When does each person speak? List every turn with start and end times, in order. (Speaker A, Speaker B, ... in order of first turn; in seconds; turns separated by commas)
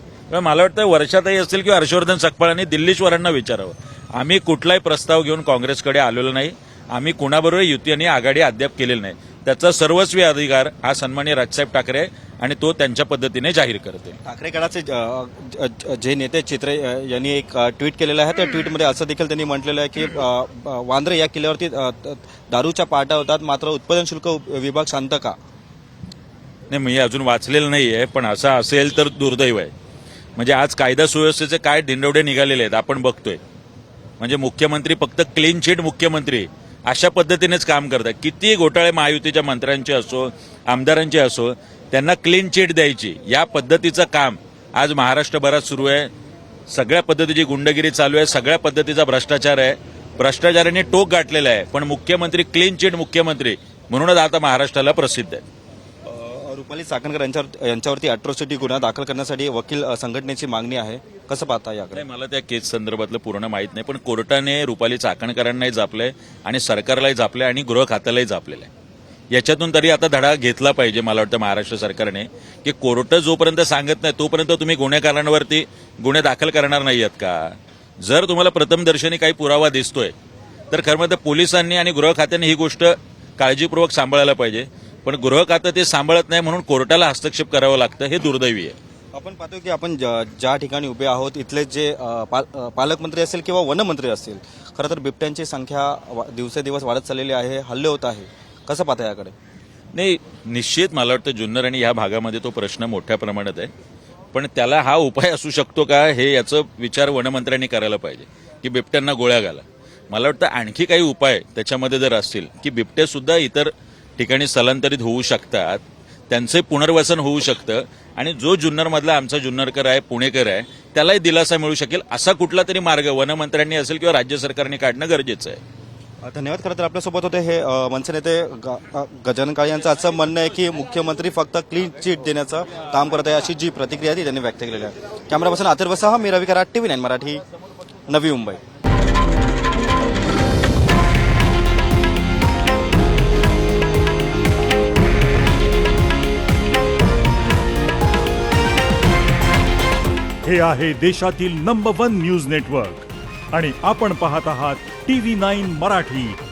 Speaker A: 0.3-14.2, Speaker B: 14.2-25.4, Speaker A: 26.7-29.7, Speaker A: 30.4-33.4, Speaker A: 34.2-46.1, Speaker A: 46.7-55.4, Speaker B: 56.0-62.0, Speaker A: 61.9-68.7, Speaker A: 69.3-80.1, Speaker A: 80.7-88.8, Speaker B: 89.1-99.3, Speaker A: 99.9-103.7, Speaker A: 104.3-125.6, Speaker B: 126.2-137.4, Speaker B: 138.1-138.6, Speaker C: 150.5-153.0, Speaker A: 150.5-152.8, Speaker C: 153.5-156.3, Speaker A: 153.6-154.7, Speaker A: 155.3-156.1